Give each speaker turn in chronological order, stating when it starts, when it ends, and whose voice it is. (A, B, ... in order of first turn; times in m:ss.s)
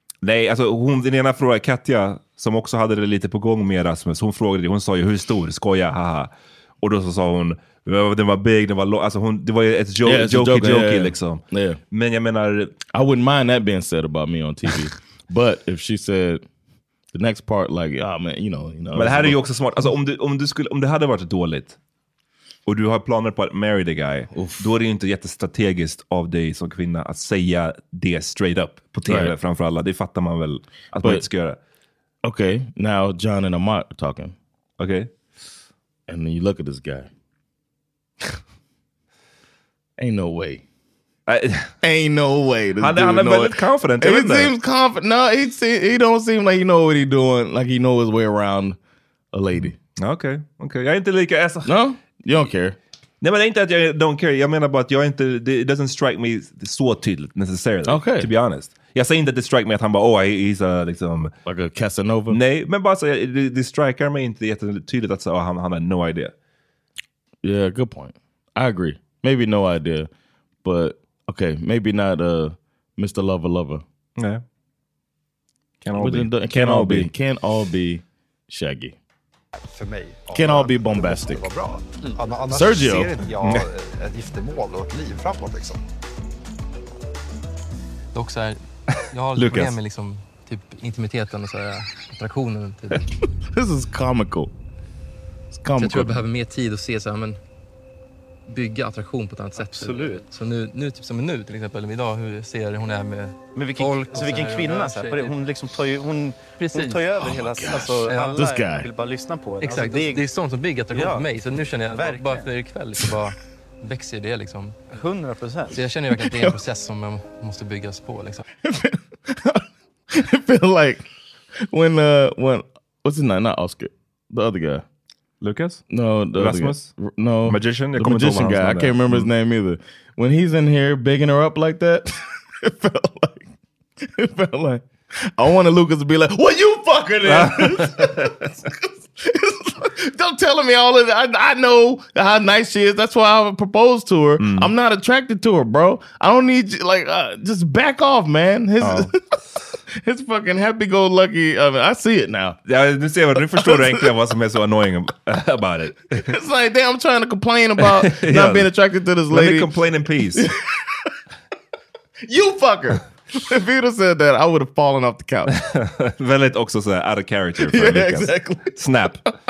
0:00.2-0:12.8 A
0:10.0-0:11.8 B
0:12.9-0:16.4 B
0:17.1-0:19.4 B
0:19.0-0:21.8 A
0:22.7-0:31.6 A
0:24.3-0:24.7 B
0:29.1-0:29.4 B
0:31.0-0:31.3 B
0:32.2-0:34.4 B
0:34.8-0:35.1 A
0:36.1-0:37.1 B
0:40.0-0:40.6 B
0:41.3-0:41.7 A
0:41.8-0:48.8 B
0:42.8-0:44.5 A
0:49.3-0:49.8 B
0:49.6-0:51.7 A
0:51.6-0:52.8 B
0:53.2-1:01.3 A
0:57.8-0:58.3 B
1:01.5-1:02.4 B
1:02.3-1:06.3 A
1:07.4-1:10.1 B
1:10.6-1:13.8 B
1:14.2-1:14.4 A
1:15.8-1:17.1 A
1:16.0-1:19.0 B
1:19.6-1:25.8 C
1:20.3-1:21.5 B
1:22.5-1:23.2 B
1:23.4-1:23.7 A
1:28.1-1:33.1 D
1:29.4-1:29.7 A
1:33.5-1:34.5 B
1:35.5-1:36.2 B
1:35.8-1:37.4 D
1:38.5-1:45.4 D
1:39.6-1:40.2 E
1:43.6-1:50.2 E
1:46.6-1:47.2 D
1:47.2-1:48.9 B
1:48.1-1:48.4 D
1:49.6-1:55.0 D
1:50.9-1:51.3 E
1:51.9-1:52.5 E
1:54.9-1:55.8 E
1:55.7-1:58.4 D
1:56.2-1:56.5 B
1:58.6-2:01.0 B
2:01.7-2:04.8 B
2:05.4-2:05.8 A
2:05.9-2:13.5 B
2:06.4-2:06.9 A
2:07.4-2:09.3 A
2:14.0-2:29.2 B
2:17.2-2:18.4 A
2:24.4-2:24.7 A
2:28.8-2:29.1 A
2:30.0-2:32.6 B
2:32.7-2:36.3 A
2:33.4-2:34.1 B
2:36.2-2:39.8 B
2:37.8-2:38.7 A
2:39.3-2:40.5 A
2:40.3-2:41.1 B
2:42.2-2:45.5 B
2:45.5-2:49.2 A
2:47.6-2:48.8 B